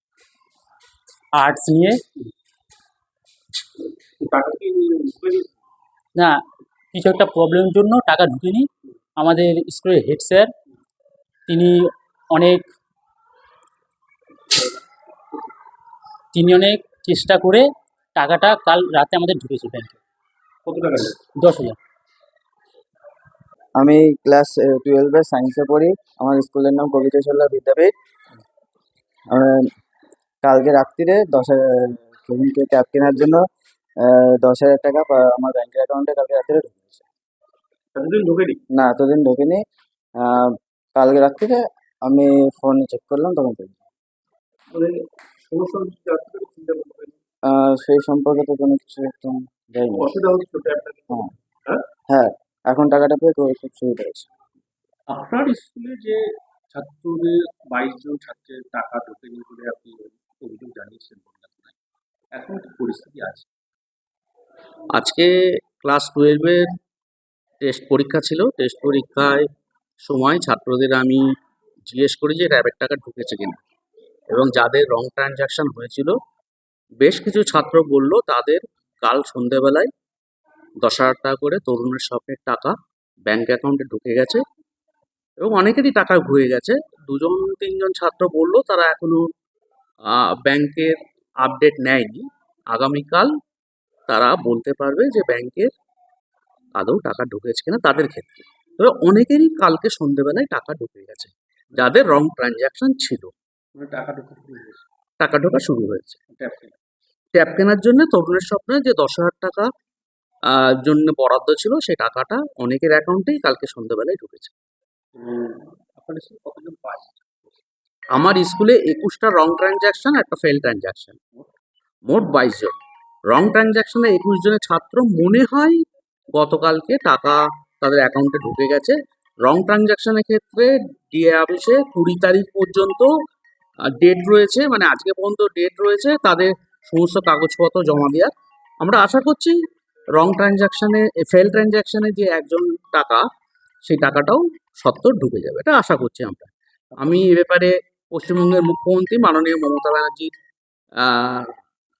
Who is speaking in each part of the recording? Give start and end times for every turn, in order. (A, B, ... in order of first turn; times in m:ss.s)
0:01.3-0:02.0 A
0:04.2-0:05.5 B
0:06.9-0:10.5 A
0:11.5-0:12.7 A
0:16.3-0:20.0 A
0:20.6-0:21.2 B
0:21.4-0:21.8 A
0:23.8-0:27.9 C
0:29.3-0:29.7 C
0:30.4-0:33.4 C
0:34.0-0:37.1 C
0:37.9-0:38.6 B
0:38.7-0:39.6 C
0:40.2-0:43.8 C
0:44.7-0:47.2 B
0:47.5-0:50.1 C
0:50.0-0:51.8 B
0:52.1-0:54.3 C
0:55.1-0:56.2 B
0:56.7-1:01.8 B
1:02.3-1:03.5 B
1:04.9-1:06.7 D
1:07.6-1:09.5 D
1:10.0-1:11.3 D
1:11.9-1:13.6 D
1:14.3-1:16.2 D
1:17.0-1:19.9 D
1:20.8-1:22.7 D
1:23.3-1:24.4 D
1:25.4-1:29.2 D
1:30.1-1:33.3 D
1:34.1-1:35.7 D
1:36.8-1:43.3 D
1:43.7-1:44.8 B
1:45.2-1:46.2 D
1:46.3-1:46.8 B
1:47.4-1:49.7 D
1:50.5-1:54.5 D
1:55.2-1:57.6 B
1:58.1-2:01.2 D
2:02.1-2:02.8 D
2:03.3-2:05.8 D
2:06.3-2:13.1 D
2:13.9-2:19.6 D
2:20.2-2:23.2 D
2:23.8-2:30.3 D
2:31.0-2:31.5 D